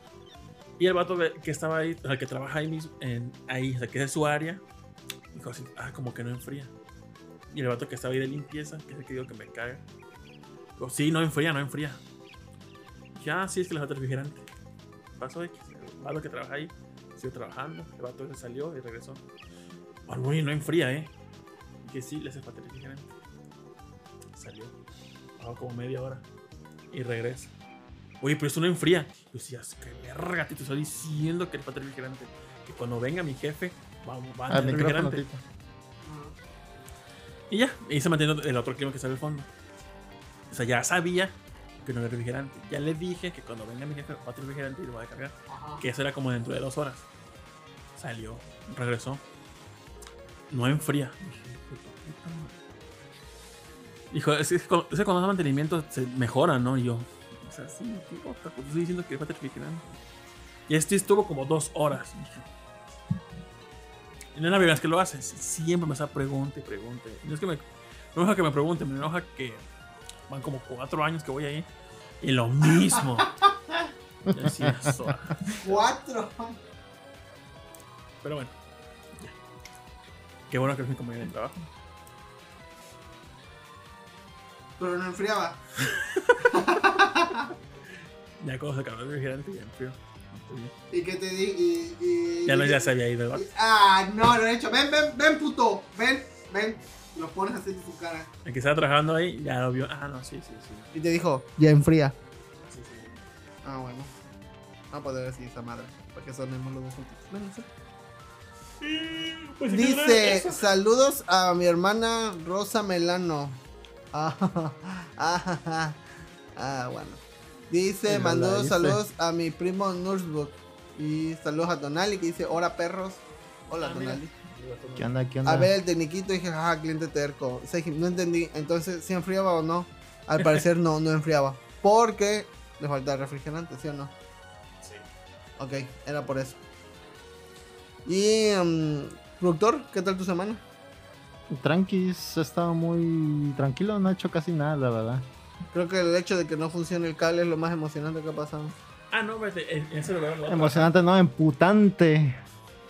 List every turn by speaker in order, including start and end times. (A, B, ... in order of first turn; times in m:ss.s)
0:00.8-0:04.6 A
0:05.3-0:06.7 A
0:07.5-0:09.8 A
0:10.8-0:12.0 A
0:13.2-0:14.5 A
0:15.2-0:19.2 A
0:20.1-0:21.1 A
0:21.8-0:23.1 A
0:24.3-0:24.7 A
0:25.4-0:26.2 A
0:26.9-0:27.5 A
0:28.2-0:35.2 A
0:34.5-0:35.4 B
0:36.0-0:36.4 C
0:37.5-0:39.5 A
0:40.5-0:47.1 A
0:45.5-0:45.8 C
0:48.0-0:49.2 A
0:50.5-0:52.6 A
0:54.1-0:59.8 A
1:00.7-1:02.5 A
1:04.4-1:09.6 A
1:10.3-1:11.7 A
1:12.2-1:13.4 A
1:12.9-1:13.5 C
1:14.3-1:15.1 B
1:14.3-1:15.8 A
1:15.6-1:16.6 C
1:18.2-1:18.5 A
1:20.5-1:21.7 A
1:24.8-1:25.6 C
1:25.8-1:26.6 A
1:26.4-1:27.5 C
1:28.4-1:30.7 A
1:30.9-1:38.3 C
1:32.5-1:33.4 A
1:38.4-1:40.9 A
1:40.9-1:42.2 C
1:42.6-1:43.2 A
1:43.6-1:44.1 C
1:44.9-1:47.7 C
1:48.8-1:50.6 A
1:49.7-1:53.6 C
1:54.1-1:56.0 C
1:56.6-2:04.3 C
1:58.1-1:59.0 B
2:03.8-2:05.1 A
2:05.0-2:05.7 B
2:05.4-2:14.1 C
2:15.6-2:16.6 C
2:18.1-2:20.6 C
2:21.5-2:25.3 B
2:25.7-2:28.8 C
2:29.1-2:30.9 A
2:30.5-2:32.4 B